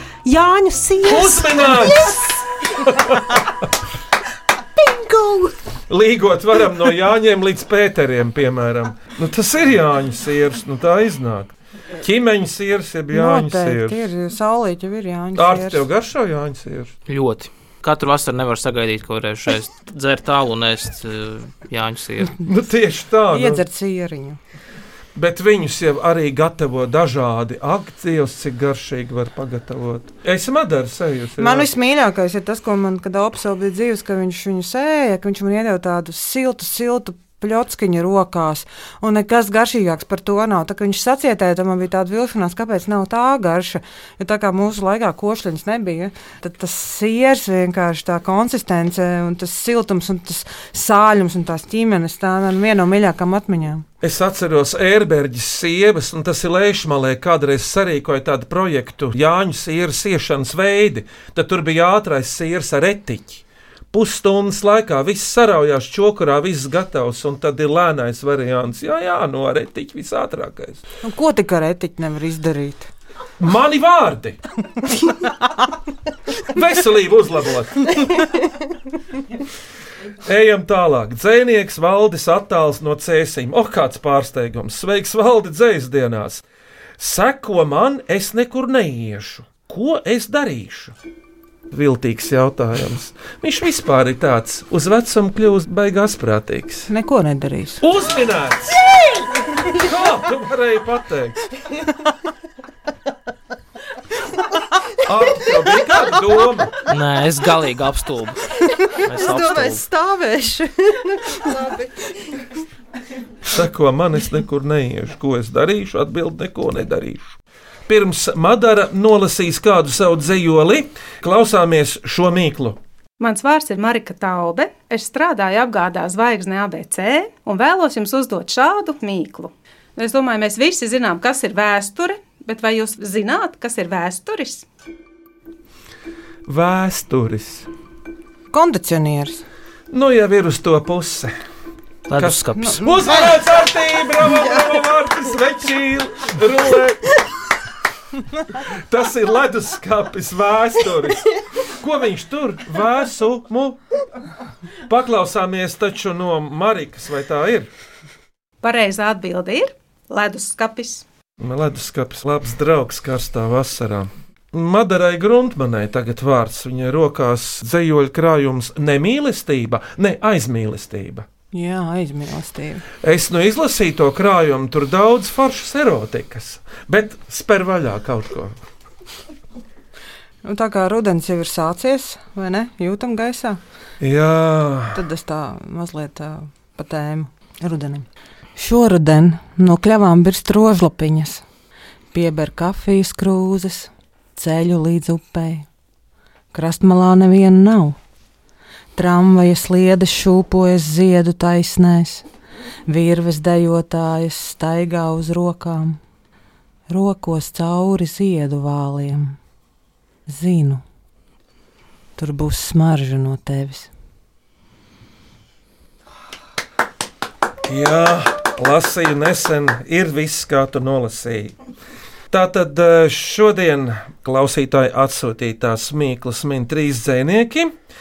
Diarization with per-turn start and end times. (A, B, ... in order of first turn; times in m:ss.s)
0:00.2-0:02.8 A
0:01.0-0:03.4 B
0:04.8-0:05.6 A
0:05.9-0:14.0 B
0:13.1-0:15.8 C
0:15.4-0:16.9 B
0:17.1-0:22.4 D
0:22.4-0:23.6 B
0:23.3-0:24.4 C
0:25.1-0:31.7 B
0:31.4-0:53.8 C
0:54.0-1:10.8 B
1:11.0-1:12.9 C
1:13.4-1:14.4 B
1:16.4-1:18.2 B
1:20.2-1:26.4 B
1:27.0-1:30.9 B
1:31.7-1:36.9 B
1:36.9-1:37.8 C
1:37.8-1:38.8 B
1:39.7-1:41.4 B
1:45.0-1:46.9 B
1:46.9-1:49.8 D
1:49.1-1:52.6 A
1:53.5-1:57.3 B
1:57.9-2:02.8 B
2:03.2-2:14.6 E
2:16.4-2:17.7 B
2:18.5-2:19.4 C
2:19.9-2:21.3 B
2:22.1-2:22.8 D
2:22.1-2:27.1 B
2:22.6-2:23.4 C
2:28.9-2:33.8 B
2:34.9-2:37.7 B
2:38.6-2:41.0 E
2:41.4-2:51.2 B
2:51.5-2:52.8 C
2:53.0-2:58.5 B
3:00.4-3:03.6 C
3:04.0-3:05.0 B
3:04.9-3:08.0 C
3:08.6-3:11.4 C
3:12.1-3:15.7 C
3:16.5-3:18.0 C
3:19.0-3:22.2 C
3:22.9-3:26.0 C
3:26.9-3:29.4 C
3:30.3-3:30.8 C
3:32.2-3:33.9 C
3:37.6-3:41.5 B
3:42.3-3:47.7 B